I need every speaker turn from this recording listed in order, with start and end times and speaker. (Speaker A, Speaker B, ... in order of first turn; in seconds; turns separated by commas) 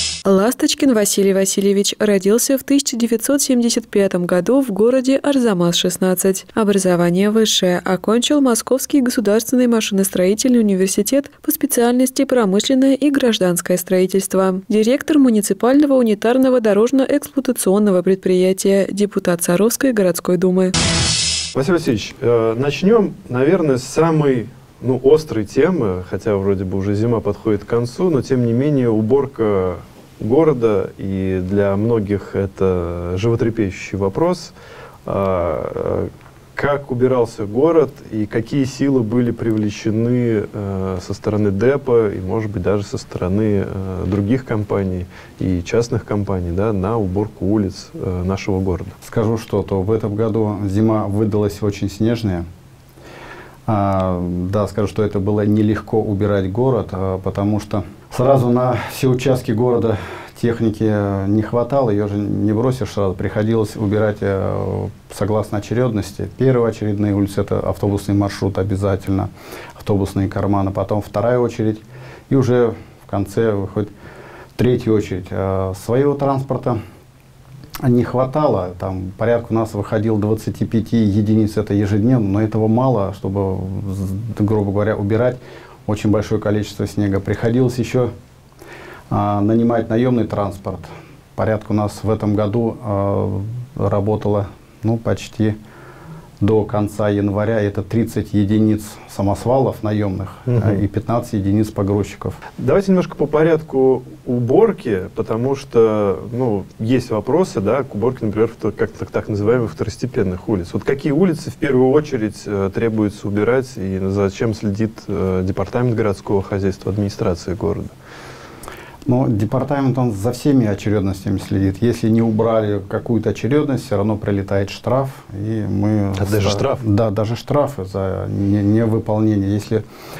Speaker A: 0.2-20.7, Speaker B: 21.5-34.5, Speaker B: 35.0-49.0, Speaker C: 49.0-52.5, Speaker C: 53.7-73.9, Speaker C: 74.6-76.8, Speaker C: 77.8-88.1, Speaker C: 89.1-95.6, Speaker C: 96.4-102.4, Speaker B: 100.5-100.8, Speaker B: 102.6-117.9, Speaker C: 119.1-129.8, Speaker B: 126.2-126.8